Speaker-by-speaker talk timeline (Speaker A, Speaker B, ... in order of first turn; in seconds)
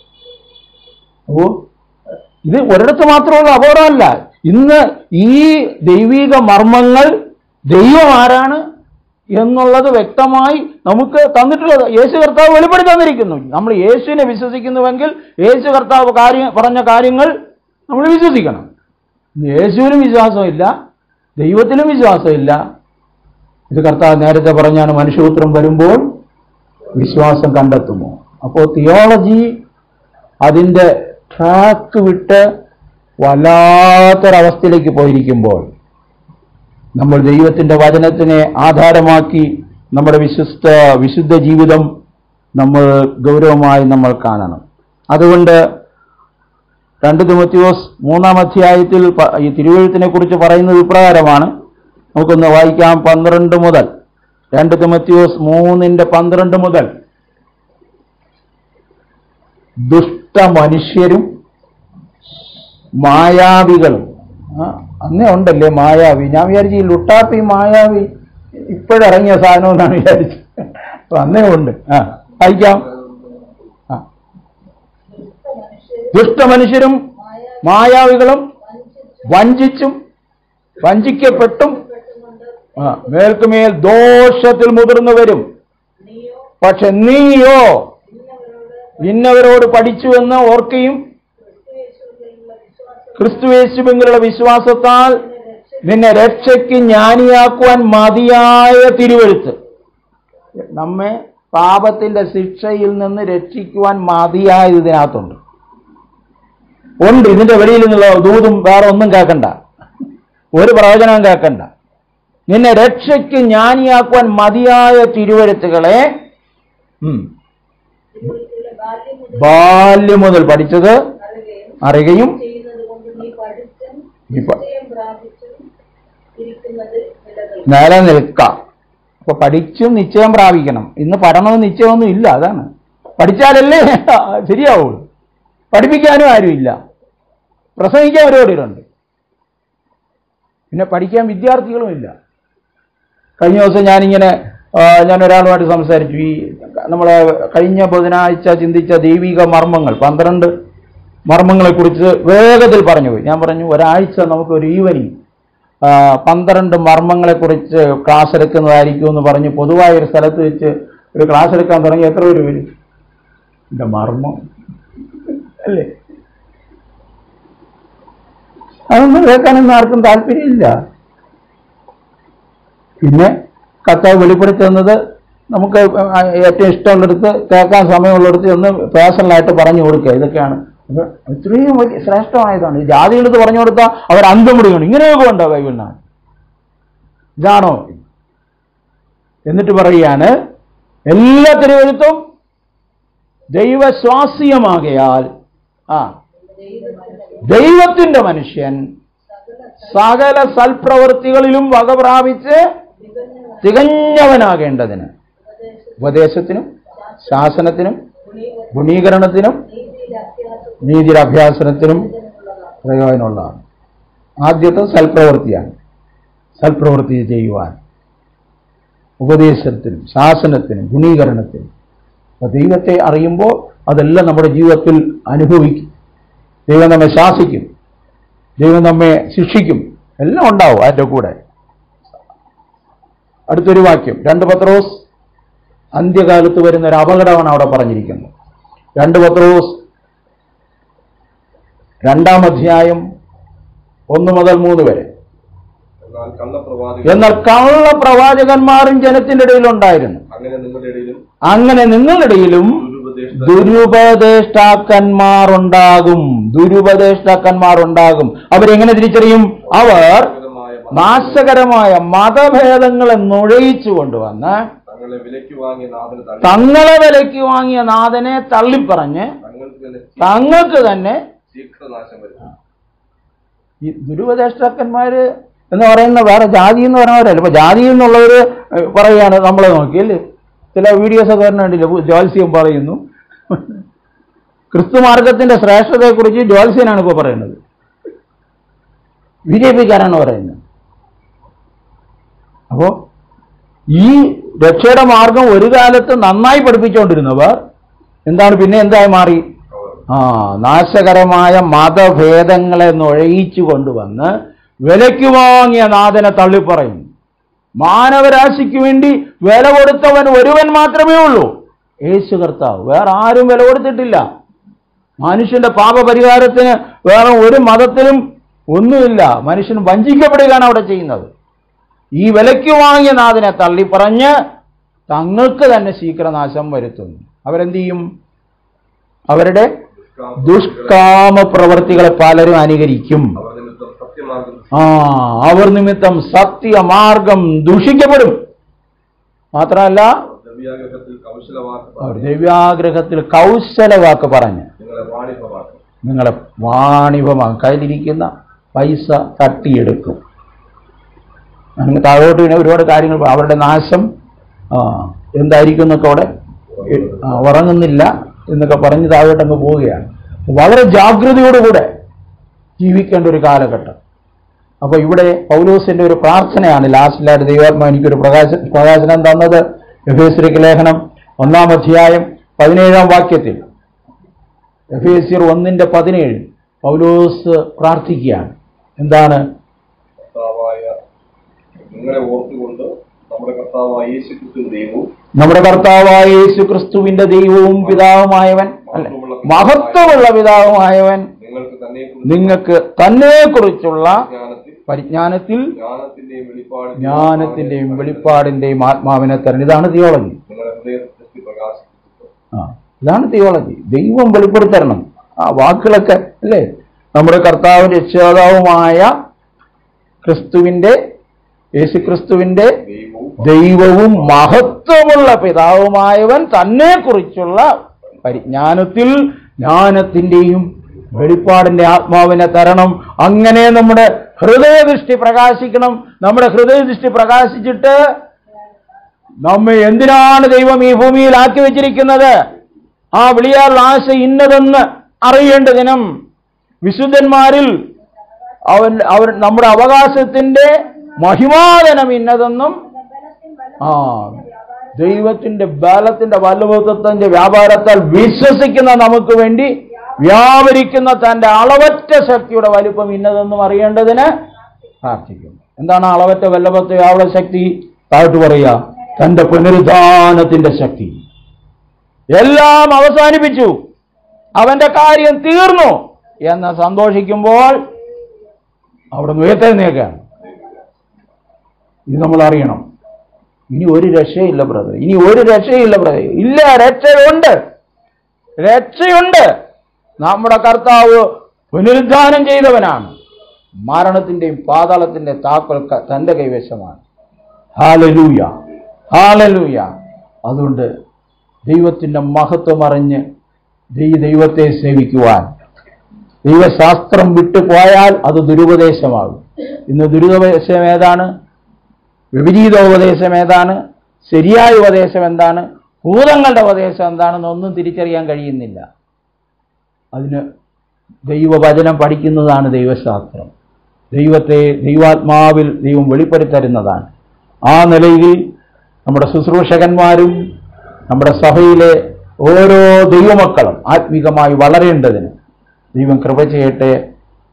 Speaker A: 1.3-1.6, 2.5-7.1, 7.7-8.6, 9.3-17.3, 17.9-18.7, 19.4-20.7, 21.4-22.6, 23.7-26.1, 26.9-29.6, 30.4-32.4, 33.2-35.7, 37.0-41.9, 42.6-45.6, 47.0-51.5, 52.1-53.9, 54.5-56.9, 59.9-61.3, 63.0-72.9, 76.1-77.0, 77.6-78.5, 79.2-80.0, 80.8-81.8, 82.8-85.4, 86.6-87.9, 89.0-91.0, 93.2-95.2, 95.8-99.6, 100.6-105.4, 107.0-109.5, 110.5-111.7, 112.5-116.1, 119.3-121.0, 121.8-122.4, 124.3-124.6, 127.7-128.5, 129.2-135.0, 135.7-136.8, 137.8-138.8, 140.7-142.1, 143.4-150.5, 151.3-155.1, 155.8-162.7, 163.7-164.4, 165.6-165.9, 168.9-170.8, 173.0-173.3, 173.8-175.0, 175.5-186.0, 187.4-188.0, 189.4-190.3, 191.1-192.2, 193.5-195.3, 197.4-198.9, 199.8-202.6, 203.6-205.1, 206.0-208.0, 208.7-209.6, 210.8-212.1, 212.8-213.6, 214.4-215.7, 216.6-217.8, 219.2-221.7, 222.4-225.9, 226.7-227.7, 228.6-231.3, 233.5-235.0, 235.9-238.3, 239.0-239.8, 242.0-243.0, 244.1-245.1, 247.0-250.2, 251.4-252.8, 253.3-260.3, 260.9-264.7, 266.4-269.3, 270.2-271.2, 273.8-280.2, 280.7-283.0, 283.5-283.8, 284.7-287.6, 289.5-290.6, 293.9-297.6, 298.3-299.4, 300.1-304.3, 304.9-307.1, 307.8-311.5, 312.1-314.2, 315.2-318.2, 318.7-321.3, 322.2-324.3, 325.1-328.1, 329.3-329.7, 330.4-333.4, 334.7-338.4, 339.5-340.1, 342.0-344.7, 346.0-350.2, 351.8-354.1, 354.7-356.3, 356.8-361.9, 362.8-364.0, 364.8-373.6, 374.9-379.4, 385.4-391.3, 392.2-394.3, 394.9-395.7, 397.0-400.4, 402.5-409.1, 410.2-411.0, 411.8-412.7, 413.4-417.7, 418.2-428.0, 429.4-432.4, 433.1-436.1, 436.8-437.8, 438.6-442.8, 443.8-444.4, 444.9-454.3, 455.0-461.2, 462.3-463.8, 464.6-467.8, 469.1-470.2, 472.1-472.8, 473.7-477.6, 478.6-479.5, 480.2-483.1, 483.9-487.0, 487.8-488.5, 489.1-489.9, 490.5-490.9, 491.7-493.2, 493.9-495.5, 496.4-501.3, 502.3-508.8, 510.1-510.4, 511.3-513.5, 514.1-517.1, 517.7-518.4, 519.0-520.4, 521.1-525.3, 525.9-527.0
Speaker B: 75.1-76.3, 77.1-77.6, 78.6-79.4, 81.3-83.1, 86.0-86.5, 88.0-89.2, 91.4-93.5, 95.0-97.0, 118.1-119.9, 121.2-121.8, 122.4-125.6, 126.3-127.7, 196.4-197.5, 199.3-200.2, 203.0-203.9, 205.4-206.1, 207.0-207.6, 208.2-209.0, 209.6-211.1, 211.8-212.8, 438.2-439.5, 440.8-441.4, 442.8-445.3, 449.9-450.4
Speaker C: 246.0-247.6, 250.3-251.2, 252.7-253.9, 259.7-261.6, 264.9-266.8, 269.4-270.9, 271.5-272.5, 299.7-300.0, 329.9-331.2, 333.4-334.8, 340.3-342.4, 344.8-345.8, 356.9-357.3, 380.3-381.0, 381.9-385.1, 387.8-388.0, 388.9-390.4, 391.4-392.6, 394.1-394.8, 395.7-398.5, 400.5-402.3, 412.8-413.5